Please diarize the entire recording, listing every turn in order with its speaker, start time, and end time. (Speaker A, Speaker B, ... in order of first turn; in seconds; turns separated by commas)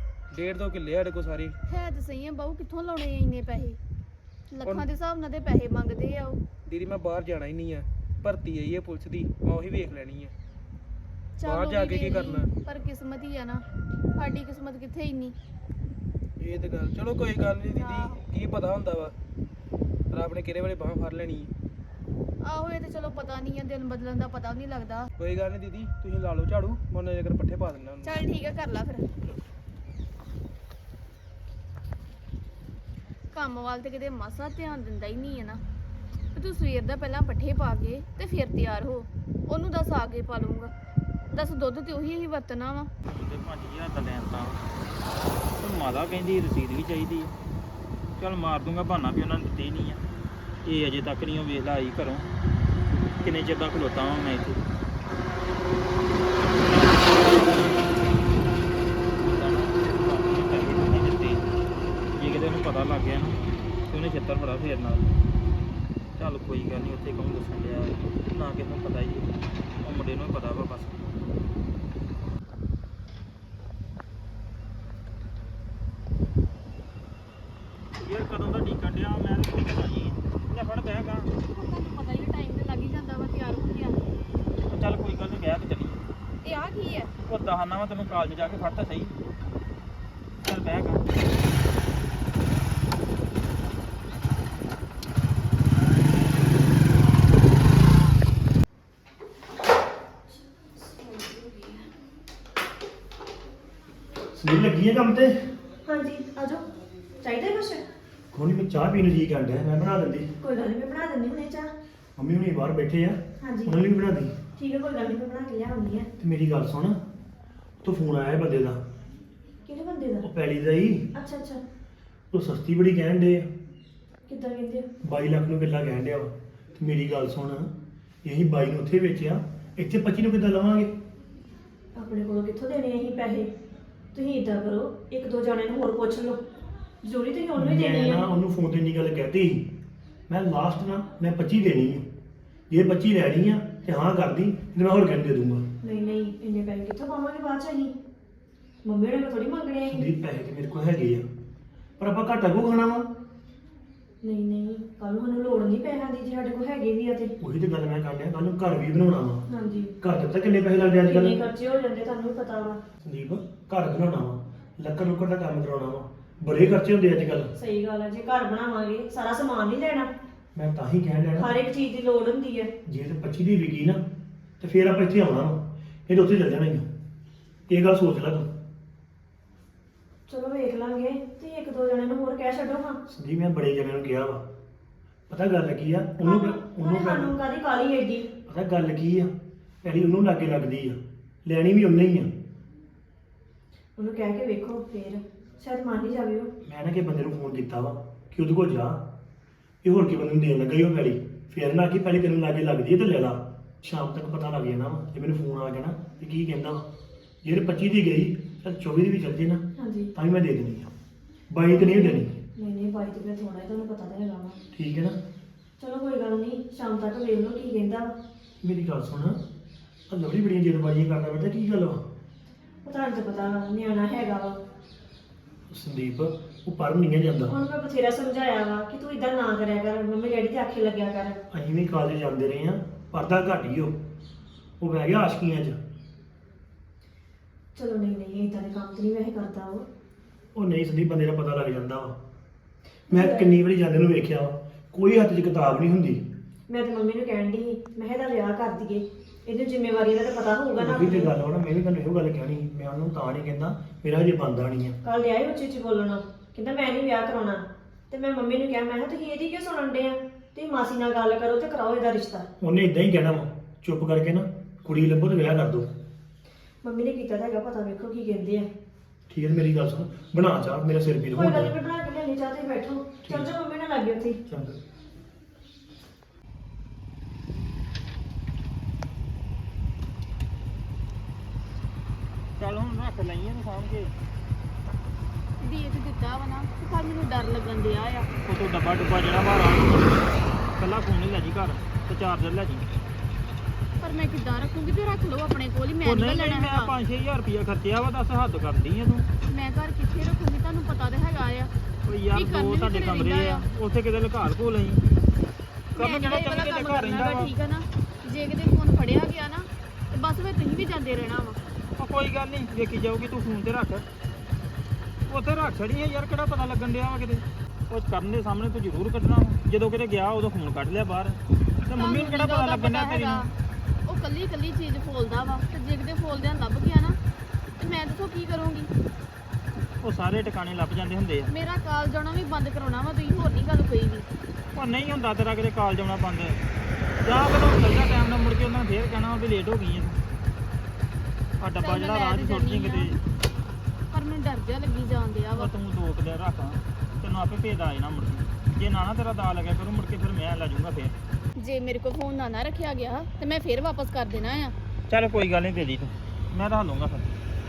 Speaker A: 0.3-1.6, Speaker B: 1.7-3.8, Speaker B: 4.5-6.4, Speaker A: 6.7-10.3, Speaker B: 11.4-13.6, Speaker A: 11.4-12.5, Speaker B: 14.2-15.4, Speaker A: 16.4-19.1, Speaker B: 17.7-18.2, Speaker A: 20.1-21.5, Speaker B: 22.4-25.1, Speaker A: 25.2-28.3, Speaker B: 28.0-29.1, Speaker B: 33.3-35.6, Speaker B: 36.4-40.7, Speaker B: 41.3-42.9, Speaker C: 43.1-44.6, Speaker C: 45.6-47.3, Speaker C: 48.2-50.0, Speaker C: 50.6-52.3, Speaker C: 53.2-54.6, Speaker C: 56.7-57.9, Speaker C: 59.2-61.5, Speaker C: 62.2-63.4, Speaker C: 63.9-65.1, Speaker C: 66.2-69.3, Speaker C: 69.8-71.0, Speaker C: 78.0-81.3, Speaker B: 81.5-84.0, Speaker C: 84.7-86.0, Speaker B: 86.4-87.1, Speaker C: 87.3-89.1, Speaker C: 90.4-91.0, Speaker D: 100.8-101.8, Speaker E: 104.3-105.5, Speaker D: 105.8-106.7, Speaker D: 107.2-107.8, Speaker E: 108.3-110.3, Speaker D: 110.4-111.7, Speaker E: 112.2-114.3, Speaker D: 113.4-113.8, Speaker D: 114.6-116.1, Speaker E: 116.2-117.0, Speaker E: 117.8-118.8, Speaker D: 119.7-120.3, Speaker E: 120.2-121.2, Speaker D: 121.1-121.6, Speaker E: 122.3-123.5, Speaker D: 124.3-124.9, Speaker E: 125.0-127.7, Speaker E: 128.2-130.9, Speaker D: 131.9-133.5, Speaker D: 134.1-136.4, Speaker D: 137.0-138.3, Speaker E: 137.6-139.7, Speaker E: 140.3-142.1, Speaker E: 142.7-145.7, Speaker D: 145.8-147.9, Speaker D: 148.8-150.1, Speaker E: 149.9-151.3, Speaker E: 152.0-153.1, Speaker D: 154.2-157.3, Speaker E: 157.4-159.5, Speaker D: 159.5-160.0, Speaker E: 160.0-161.4, Speaker D: 161.0-162.8, Speaker E: 163.0-167.5, Speaker D: 167.6-170.1, Speaker E: 170.6-171.5, Speaker D: 171.4-172.7, Speaker E: 172.8-174.0, Speaker E: 174.6-176.9, Speaker E: 177.7-178.5, Speaker D: 180.3-183.0, Speaker E: 183.1-184.4, Speaker E: 185.3-187.4, Speaker D: 186.2-188.3, Speaker E: 188.4-189.3, Speaker E: 189.8-192.3, Speaker D: 194.0-196.5, Speaker E: 196.6-199.1, Speaker E: 199.8-206.8, Speaker E: 207.4-210.9, Speaker D: 209.8-210.1, Speaker E: 211.5-212.4, Speaker D: 211.7-214.6, Speaker E: 214.7-215.2, Speaker D: 215.8-218.1, Speaker E: 218.6-219.4, Speaker E: 220.1-222.0, Speaker D: 222.8-224.6, Speaker E: 225.7-227.6, Speaker D: 227.5-231.4, Speaker E: 231.5-234.0, Speaker E: 234.8-235.8, Speaker D: 237.8-239.9, Speaker E: 240.6-242.2, Speaker D: 243.1-243.5, Speaker E: 243.1-246.2, Speaker D: 246.7-251.3, Speaker E: 250.8-255.0, Speaker D: 255.0-262.5, Speaker E: 262.6-265.9, Speaker D: 266.8-268.7, Speaker E: 269.3-271.7, Speaker D: 271.3-274.4, Speaker E: 273.2-273.5, Speaker C: 282.6-284.1, Speaker B: 285.6-288.3, Speaker C: 288.4-292.9, Speaker B: 294.0-296.9, Speaker C: 296.0-299.3, Speaker B: 299.5-301.7, Speaker C: 302.1-305.0, Speaker B: 302.4-303.6, Speaker C: 306.0-307.5, Speaker B: 306.0-311.6, Speaker C: 312.0-314.1, Speaker C: 315.3-323.4, Speaker B: 322.0-323.4, Speaker B: 324.1-327.2, Speaker B: 327.8-328.9, Speaker C: 330.0-331.5, Speaker B: 331.5-334.3, Speaker C: 334.8-336.6, Speaker C: 337.2-340.2, Speaker C: 341.6-343.1, Speaker B: 341.8-343.2, Speaker B: 344.1-345.7, Speaker C: 345.6-351.1, Speaker B: 351.6-354.7, Speaker C: 355.1-357.3